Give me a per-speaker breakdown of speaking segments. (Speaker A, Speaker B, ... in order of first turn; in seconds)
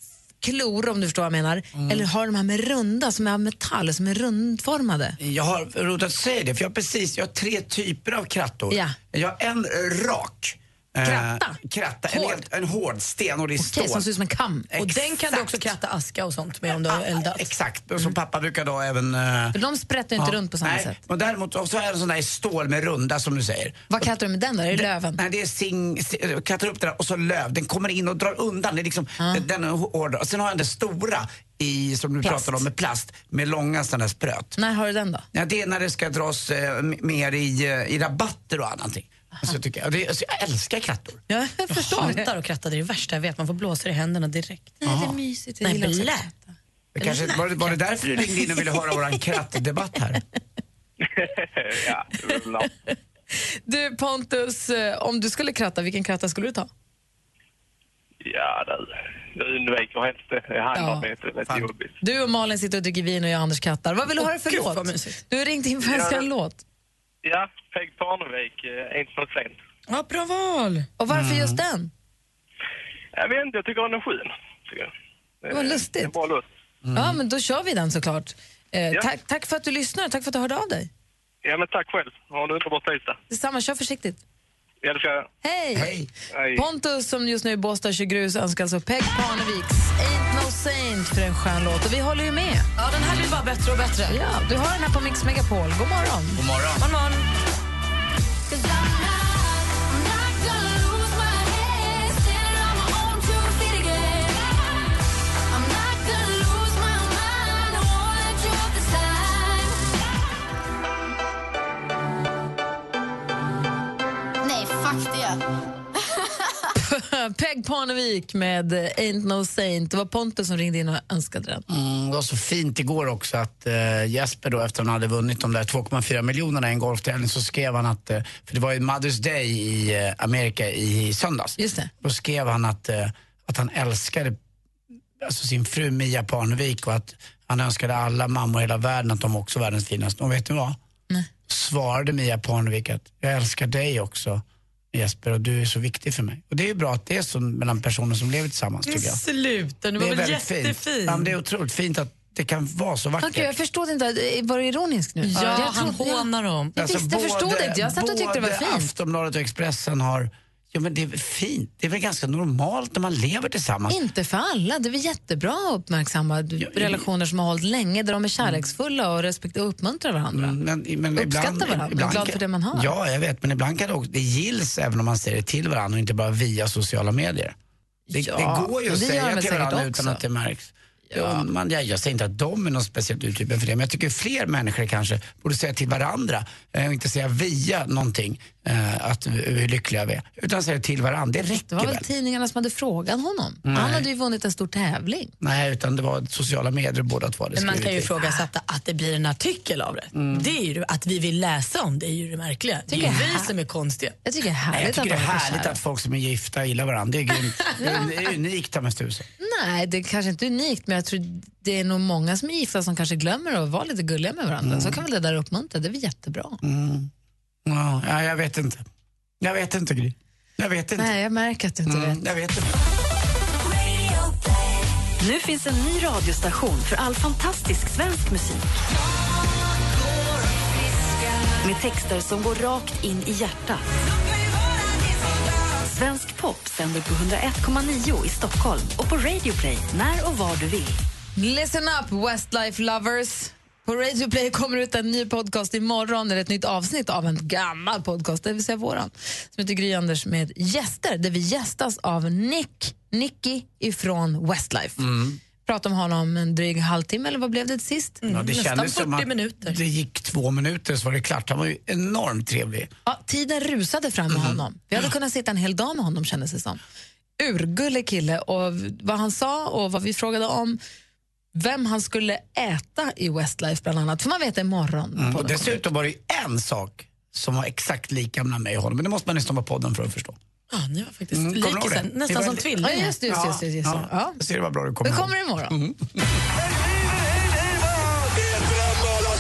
Speaker A: 0.4-5.2, 8.7-9.0, 11.0-11.6, 12.1-12.4, 13.6-14.7, 19.5-21.0, 23.9-25.2, 32.2-32.6, 34.6-35.3, 41.3-42.3, 44.8-46.5, 53.7-56.7, 60.8-61.1, 62.0-66.6, 71.0-71.9, 75.5-76.1, 77.0-80.9, 83.3-84.2, 85.4-85.9, 86.5-92.7, 94.1-96.4, 116.8-121.7, 131.6-131.9, 153.2-158.9, 163.9-170.6, 171.2-172.9, 178.1-180.2, 181.1-181.4, 191.4-195.3, 202.9-203.5, 204.2-205.8, 209.4-216.6, 221.0-222.2, 241.4-255.0, 255.6-258.2, 263.1-266.8, 267.4-270.8, 271.6-275.8, 282.8-284.4, 285.0-285.7
Speaker B: 1.7-2.1, 5.2-14.1, 14.7-15.7, 16.9-19.6, 20.2-24.0, 24.7-34.6, 35.3-41.2, 44.8-45.2, 47.0-50.2, 71.1-71.6, 76.8-77.2, 85.8-86.1, 96.4-96.8, 121.7-134.4, 135.2-140.8, 141.5-149.2, 150.0-153.5, 156.8-164.0, 166.6-167.1, 170.3-177.6, 178.1-192.1, 193.7-194.1, 195.4-198.2, 200.1-200.5, 204.7-209.3, 214.6-215.0, 216.6-217.1, 217.7-218.8, 219.4-221.1, 221.9-222.7, 255.0-255.4, 258.3-262.9, 264.3-264.6, 275.2-280.4, 281.3-282.7, 283.3-286.2
Speaker C: 14.8-17.5, 41.7-44.9, 45.6-46.3, 47.0-47.8, 64.3-65.2, 69.9-70.9, 92.8-94.2, 96.8-97.2, 148.9-151.3, 155.2-156.8, 197.6-204.2, 258.2-259.8, 280.7-283.2
Speaker D: 51.0-52.7, 58.2-61.9, 65.8-66.3, 67.2-69.6, 73.2-74.9, 75.4-76.4, 81.4-83.2, 84.8-85.3, 86.3-86.7
Speaker E: 98.5-105.0, 105.5-109.8, 114.4-115.4
Speaker F: 225.2-228.7, 231.6-233.8, 235.8-241.0